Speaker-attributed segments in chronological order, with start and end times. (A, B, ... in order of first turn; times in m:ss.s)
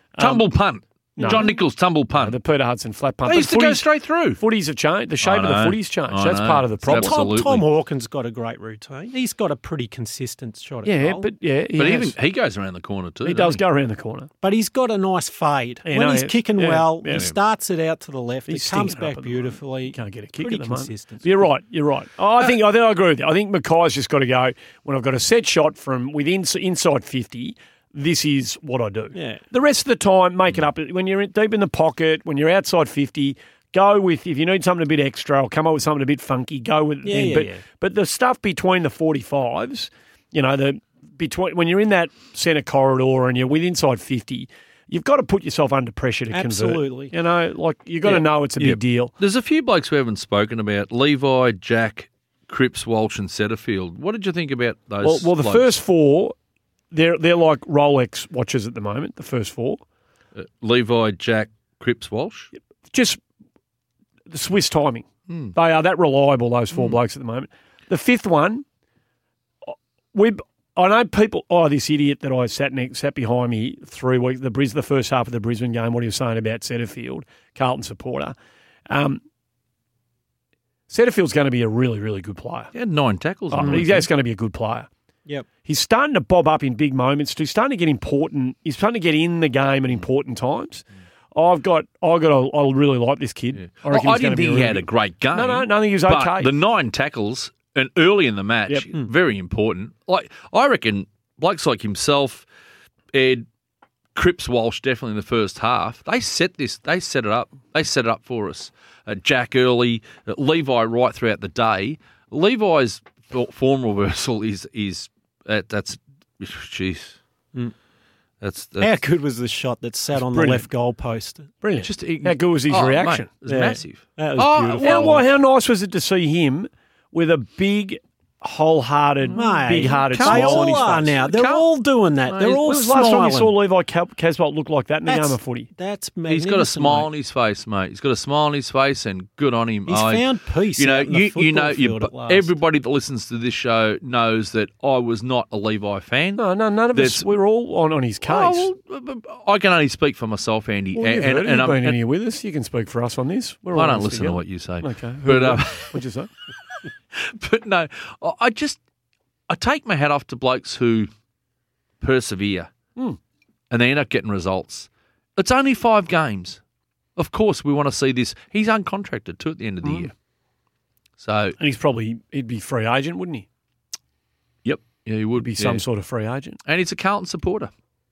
0:00.2-0:00.5 A
0:00.2-0:02.4 B
0:01.2-0:01.5 A
0:01.2-0:01.6 C
0:02.2-0:03.9 A
0:03.3-0:04.4 B
0:04.4-0:07.2 A
0:05.2-0:07.6 B
0:06.9-0:11.3 C
0:10.8-0:12.2 A
0:11.8-0:13.6 B
0:13.2-0:14.3 A
0:14.4-0:21.5 C
0:15.9-0:17.3 A
0:18.5-0:49.1 A
0:29.1-0:29.4 C
0:37.0-0:37.6 C
0:46.3-0:47.1 C
0:48.6-0:55.7 B
0:55.0-0:56.4 A
0:56.9-0:59.8 A
1:00.4-1:02.5 B
1:02.6-1:03.2 A
1:04.3-1:08.6 A
1:05.3-1:05.5 B
1:09.7-1:18.3 A
1:18.9-1:19.2 A
1:20.9-1:22.7 A
1:22.7-1:24.1 B
1:23.5-1:24.9 A
1:25.6-1:36.5 A
1:33.6-1:42.5 B
1:43.1-1:43.5 B
1:44.2-1:57.2 B
1:58.4-1:58.9 B
1:58.8-2:01.5 C
2:00.2-2:00.7 A
2:01.6-2:03.3 A
2:01.8-2:05.2 B
2:03.5-2:05.2 C
2:04.8-2:11.2 A
2:09.3-2:13.5 C
2:09.3-2:11.6 B
2:12.3-2:12.6 B
2:12.6-2:15.7 A
2:15.1-2:17.1 C
2:16.3-2:20.3 B
2:19.9-2:22.5 C
2:20.8-2:27.3 B
2:26.4-2:28.7 A
2:28.3-2:32.0 B
2:31.0-2:36.3 A
2:33.8-2:36.0 B
2:37.1-2:38.8 B
2:39.5-2:41.1 B
2:42.0-2:42.7 B
2:43.7-2:46.6 B
2:47.2-2:50.1 B
2:49.8-2:50.1 A
2:51.2-2:51.6 B
2:51.6-2:53.5 A
2:54.6-2:55.8 B
2:55.4-2:56.6 A
2:56.7-2:57.7 B